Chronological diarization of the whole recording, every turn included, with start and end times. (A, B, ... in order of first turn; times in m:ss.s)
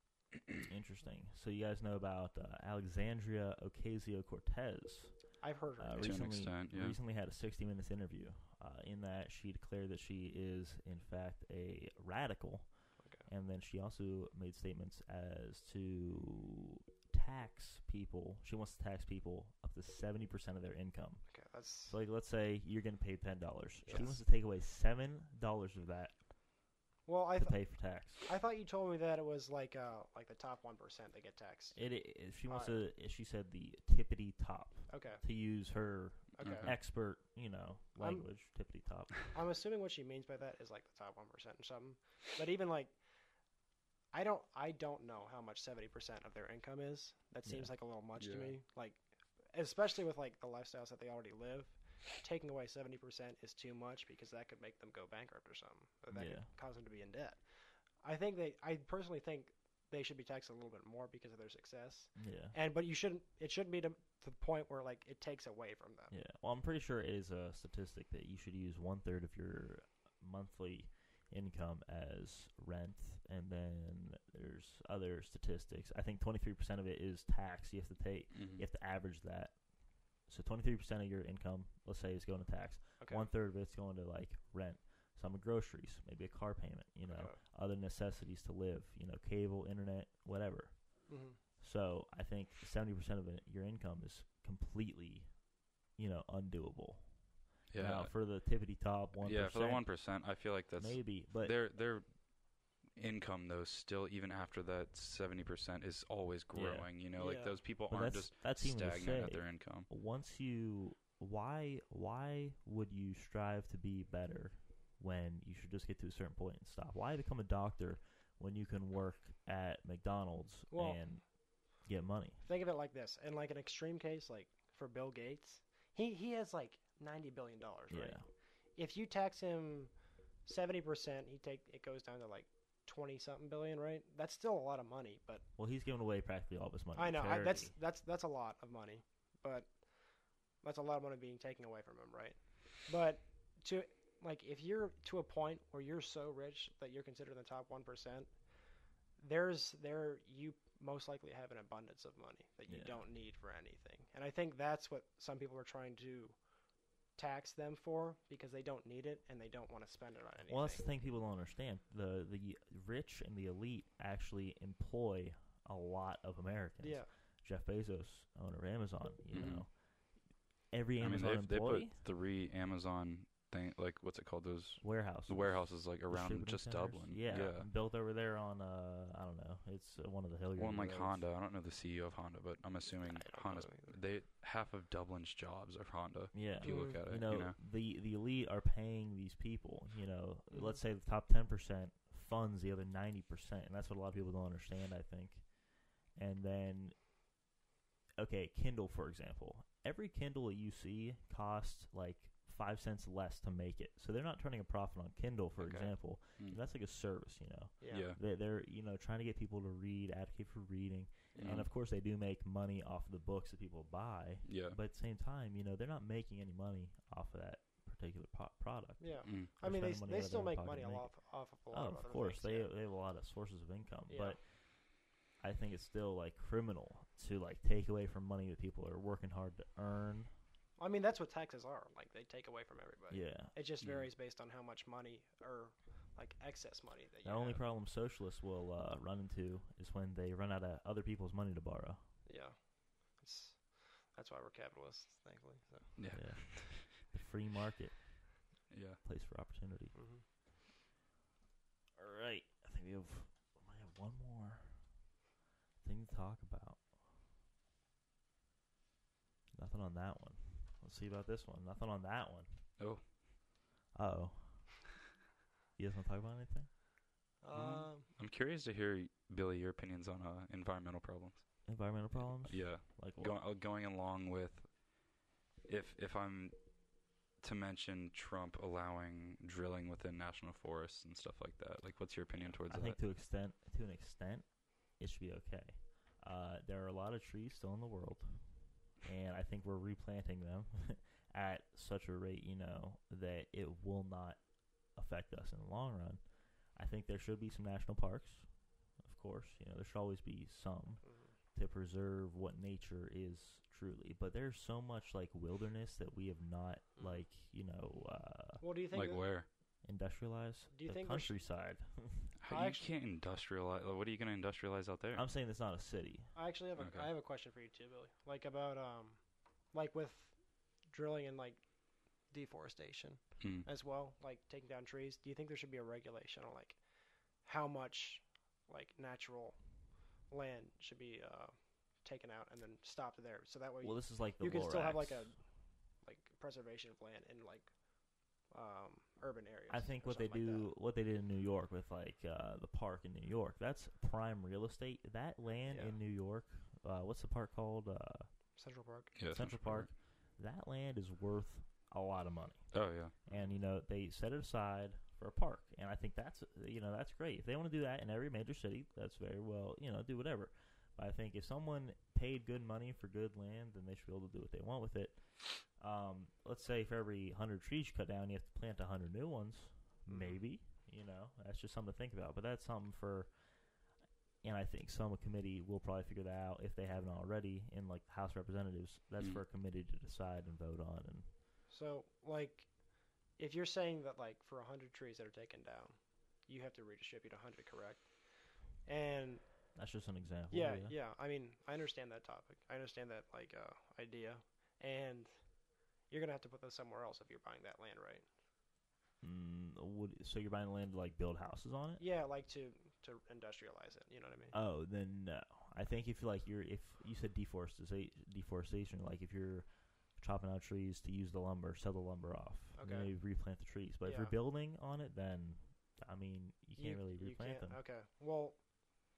0:00.3-0:00.6 A
0:00.7-0:05.3 B
0:05.4-0:06.3 C
0:05.8-0:12.7 B
0:06.0-0:07.0 A
0:13.0-0:13.3 C
0:13.2-0:21.2 B
0:21.3-0:21.9 C
0:21.9-0:26.2 B
0:23.8-0:24.2 C
0:27.1-0:31.8 C
0:27.4-0:28.3 B
0:31.7-0:39.2 B
0:32.5-0:32.8 C
0:34.9-0:35.2 C
0:36.4-0:36.8 C
0:36.4-0:36.7 A
0:38.0-0:38.2 C
0:39.3-0:42.9 C
0:44.1-0:49.0 C
0:47.4-0:47.7 B
0:48.2-0:48.6 A
0:49.5-0:57.4 C
0:56.1-0:56.5 B
0:58.0-1:06.1 C
1:02.2-1:02.5 B
1:06.1-1:19.6 B
1:18.3-1:18.6 A
1:20.3-1:35.3 B
1:23.0-1:23.3 C
1:27.1-1:27.4 C
1:31.1-1:31.4 C
1:36.0-1:37.1 B
1:37.7-1:38.1 A
1:37.8-1:39.9 B
1:39.2-1:42.1 A
1:40.8-1:41.5 B
1:42.9-1:49.9 A
1:46.5-1:46.9 B
1:47.2-1:47.6 C
1:47.9-2:01.2 B
2:00.7-2:01.0 C
2:01.8-2:02.4 B
2:02.4-2:08.2 C
2:07.9-2:08.2 B
2:08.8-2:09.9 C
2:10.4-2:15.4 C
2:15.6-2:17.7 B
2:16.9-2:19.7 C
2:20.6-2:28.3 C
2:29.2-2:36.4 C
2:32.7-2:33.0 B
2:37.2-2:40.9 C
2:40.5-2:49.8 B
2:46.8-2:47.1 C
2:49.3-2:49.6 A
2:50.7-2:52.0 B
2:51.0-2:57.7 A
2:54.8-3:01.2 B
3:00.6-3:07.6 A
3:02.9-3:04.0 C
3:06.3-3:15.5 B
3:06.6-3:07.0 C
3:10.5-3:10.8 C
3:16.1-3:17.0 B
3:18.2-3:41.1 B
3:25.6-3:26.6 A
3:27.8-3:28.1 C
3:27.9-3:28.2 A
3:31.3-3:31.7 A
3:34.4-3:34.8 A
3:39.0-3:42.7 C
3:39.2-3:39.5 A
3:41.7-3:44.5 B
3:44.1-3:44.4 C
3:45.4-3:50.3 B
3:50.8-3:57.6 C
3:53.1-3:53.5 B
3:53.8-3:54.1 A
3:57.2-4:02.0 B
4:02.2-4:02.6 C
4:03.2-4:06.0 C
4:06.0-4:06.8 A
4:06.0-4:08.3 B
4:08.7-4:09.0 A
4:09.0-4:10.0 B
4:09.9-4:10.2 C
4:12.0-4:14.9 B
4:15.8-4:16.9 B
4:19.5-4:22.6 B
4:22.8-4:23.0 A
4:23.9-4:24.8 B
4:25.8-4:26.7 B
4:27.4-4:28.1 C
4:27.5-4:31.5 A
4:31.6-4:33.4 B
4:32.1-4:34.7 A
4:35.6-4:36.5 A
4:37.4-4:43.0 A
4:42.7-4:54.4 B
4:54.9-4:56.2 B
4:56.8-4:58.5 B
4:59.0-5:01.0 B
5:01.0-5:01.3 C
5:01.5-5:08.6 B
5:08.6-5:09.2 C
5:08.9-5:09.5 A
5:09.8-5:12.3 B
5:10.7-5:11.4 C
5:12.4-5:15.2 A
5:12.5-5:12.8 C
5:15.1-5:16.3 B
5:16.3-5:19.2 C
5:16.8-5:17.1 A
5:19.7-5:20.3 C
5:20.9-5:21.6 C
5:22.3-5:26.8 C
5:23.4-5:23.7 A
5:27.4-5:29.6 C
5:30.3-5:35.4 C
5:33.8-5:35.3 B
5:36.0-5:37.7 C
5:38.5-5:40.7 C
5:39.7-5:48.3 B
5:45.7-5:46.0 C
5:48.6-5:49.2 C
5:49.2-5:49.9 A
5:49.3-5:52.7 B
5:52.7-5:53.1 A
5:53.2-6:13.3 B
5:53.3-5:53.6 C
6:10.1-6:10.4 C
6:14.4-6:21.3 B
6:21.7-6:22.7 C
6:23.4-6:25.9 C
6:26.5-6:28.1 C
6:28.8-6:29.4 C
6:29.8-6:31.0 B
6:30.5-6:35.3 C
6:36.1-6:38.2 C
6:39.2-6:42.0 B
6:42.0-6:44.5 C
6:44.5-6:57.8 B
6:52.8-6:53.1 C
6:54.0-6:54.4 C
6:56.8-6:58.6 C